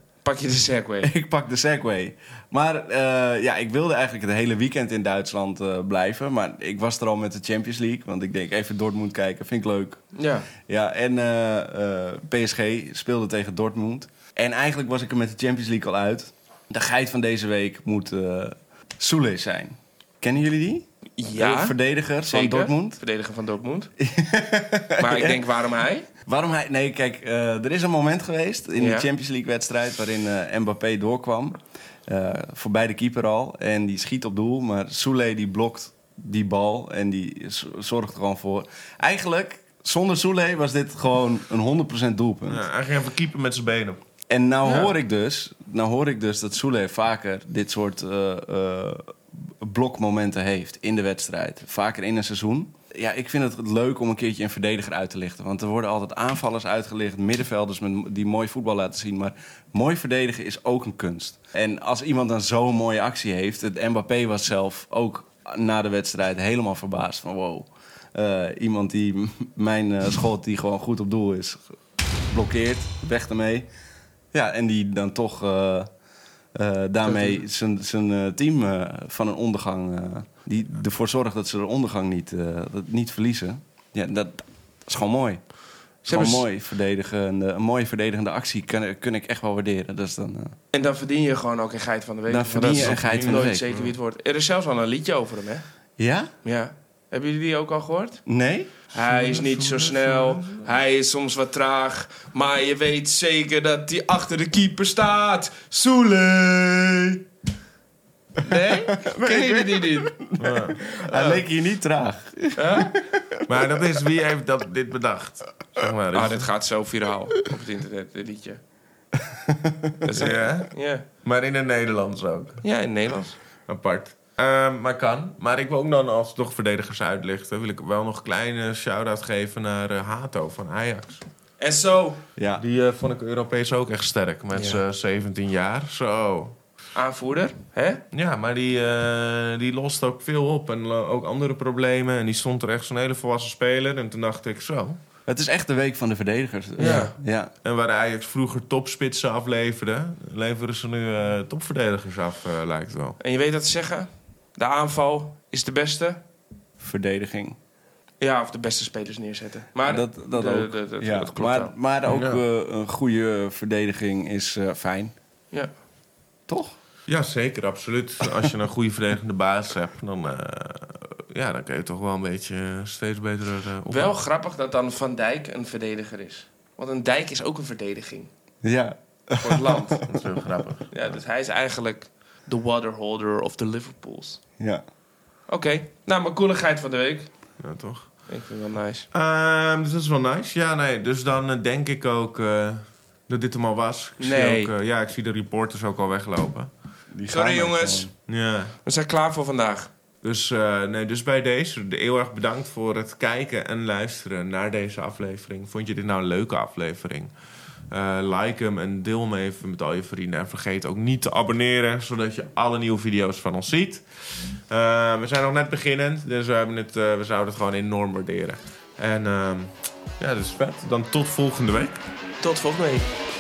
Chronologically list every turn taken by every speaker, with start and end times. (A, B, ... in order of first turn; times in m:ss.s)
0:00.2-0:01.1 A
0:01.0-0:10.0 B
0:10.2-0:10.5 A
0:10.6-0:23.0 B
0:21.2-0:23.9 A
0:24.0-0:25.4 B
0:25.0-0:26.1 A
0:26.3-0:42.6 B
0:28.8-0:29.1 A
0:42.5-0:44.0 C
0:44.3-1:11.6 B
0:44.6-0:44.9 A
1:12.3-1:13.7 B
1:14.3-1:15.9 B
1:16.5-1:25.5 B
1:17.0-1:17.4 A
1:26.0-1:30.6 B
1:26.1-1:26.5 A
1:30.7-1:35.6 A
1:32.3-1:33.7 B
1:32.6-1:33.9 C
1:36.0-1:36.3 B
1:36.4-1:38.2 A
1:38.3-1:38.9 B
1:38.9-1:47.2 A
1:39.0-1:40.7 C
1:48.4-1:50.4 A
1:49.0-1:53.2 B
1:50.4-1:50.8 C
1:51.1-1:51.5 A
1:52.6-1:53.0 A
1:53.5-1:56.5 C
1:56.1-1:58.6 A
1:59.4-1:59.9 B
2:00.0-2:01.0 A
2:00.1-2:02.6 C
2:02.6-2:03.4 A
2:03.7-2:11.2 C
2:11.6-2:12.2 A
2:12.4-2:12.6 B
2:12.6-2:16.6 C
2:14.6-2:14.8 A
2:17.0-2:18.0 A
2:18.1-2:25.0 C
2:25.3-2:27.5 B
2:26.8-2:27.1 A
2:26.8-2:33.2 C
2:33.2-2:36.2 A
2:36.8-2:37.6 B
2:38.2-2:41.7 A
2:39.8-2:45.1 B
2:42.1-2:42.4 C
2:46.5-2:46.8 B
2:47.1-2:54.2 C
2:53.9-2:58.3 A
2:58.6-3:00.0 B
2:59.4-3:00.0 A
3:00.1-3:00.9 C
3:00.9-3:04.4 A
3:05.5-3:07.6 A
3:07.6-3:08.3 C
3:08.3-3:09.1 A
3:09.1-3:16.7 C
3:14.2-3:14.7 A
3:17.1-3:18.1 B
3:17.3-3:19.9 A
3:18.3-3:18.8 C
3:20.2-3:27.3 C
3:27.9-3:34.0 C
3:34.7-3:42.0 C
3:42.4-3:43.1 A